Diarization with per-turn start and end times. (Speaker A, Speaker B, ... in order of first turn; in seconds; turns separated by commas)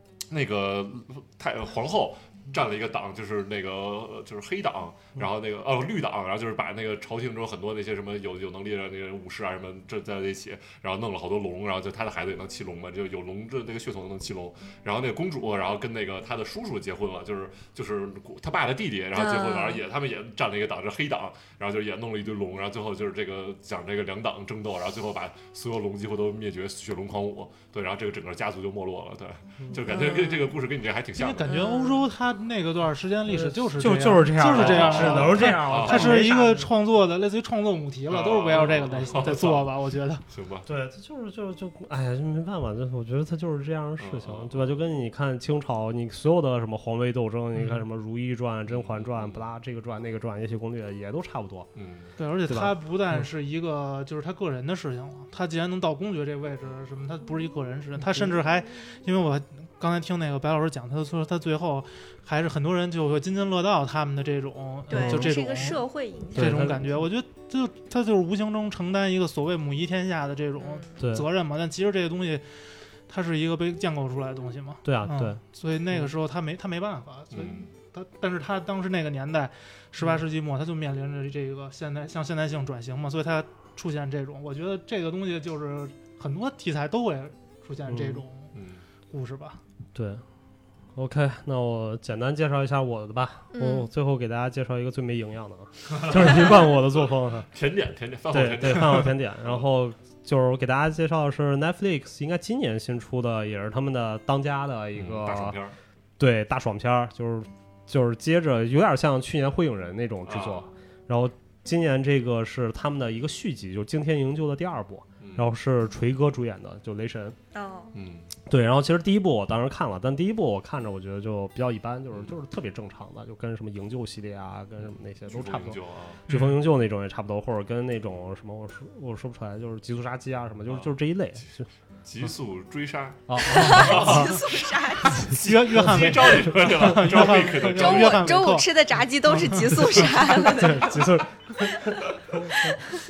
Speaker A: 0.3-31.6, Speaker B: 19.1-19.8, Speaker B: 29.9-30.5, Speaker C: 31.1-40.2, Speaker B: 31.5-32.0, Speaker D: 33.3-36.7, Speaker A: 34.5-36.2, Speaker A: 38.1-39.7, Speaker A: 40.3-40.7, Speaker D: 40.6-51.7, Speaker A: 44.0-44.8, Speaker C: 47.5-47.8, Speaker A: 48.7-49.4, Speaker A: 51.8-52.1, Speaker C: 52.2-65.8, Speaker D: 52.5-53.2, Speaker B: 64.9-66.7, Speaker D: 64.9-65.3, Speaker D: 66.3-67.0, Speaker C: 66.3-72.4, Speaker B: 70.6-71.0, Speaker D: 71.0-71.2, Speaker C: 73.1-88.5, Speaker D: 74.8-75.4, Speaker A: 77.3-77.7, Speaker D: 87.9-88.2, Speaker A: 88.5-88.8, Speaker C: 89.1-89.6, Speaker D: 89.9-90.2, Speaker D: 90.9-97.5, Speaker B: 93.5-93.9, Speaker A: 96.0-96.3, Speaker A: 97.5-99.6, Speaker D: 98.3-105.6, Speaker A: 104.9-105.8, Speaker D: 106.2-117.4, Speaker A: 110.2-110.7, Speaker A: 115.2-115.5, Speaker B: 117.5-117.9, Speaker A: 117.9-118.3, Speaker D: 118.5-131.7, Speaker A: 124.8-126.2, Speaker C: 126.3-126.6, Speaker A: 130.7-130.9, Speaker A: 132.0-138.4, Speaker D: 133.3-134.5, Speaker B: 133.4-135.3, Speaker C: 135.3-138.8, Speaker B: 137.7-141.1, Speaker C: 139.3-139.7, Speaker D: 140.3-142.7